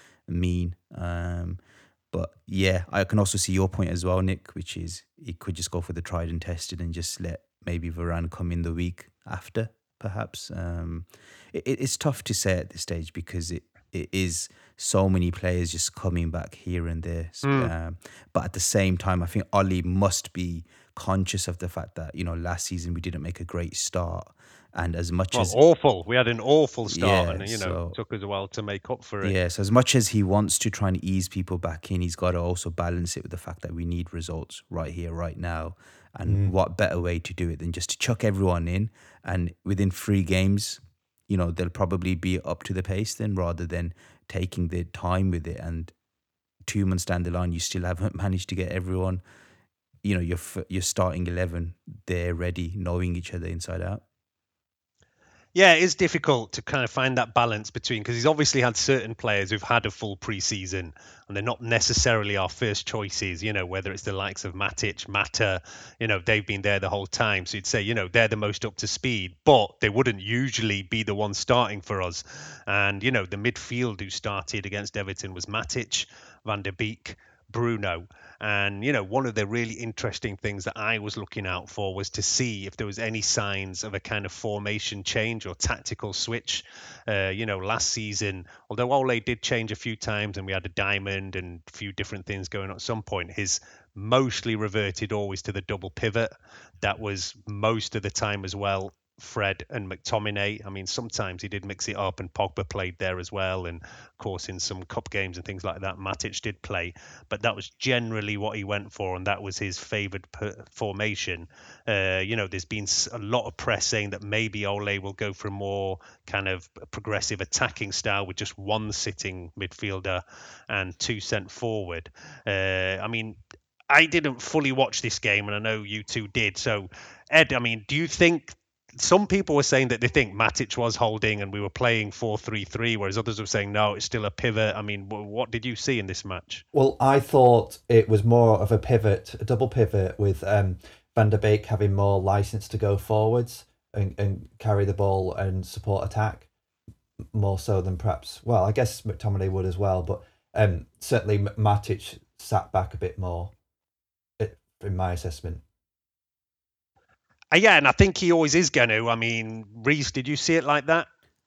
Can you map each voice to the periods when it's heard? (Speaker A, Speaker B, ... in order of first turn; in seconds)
Speaker A: 0.3-1.6, 2.1-25.6, 26.9-28.0, 29.2-45.9, 46.7-49.2, 50.0-54.0
Speaker B: 17.4-17.7, 25.3-29.4, 55.5-96.3, 96.8-123.4, 123.9-136.7, 157.5-161.1
Speaker C: 36.3-36.5, 136.7-146.5, 147.3-153.5, 154.4-155.6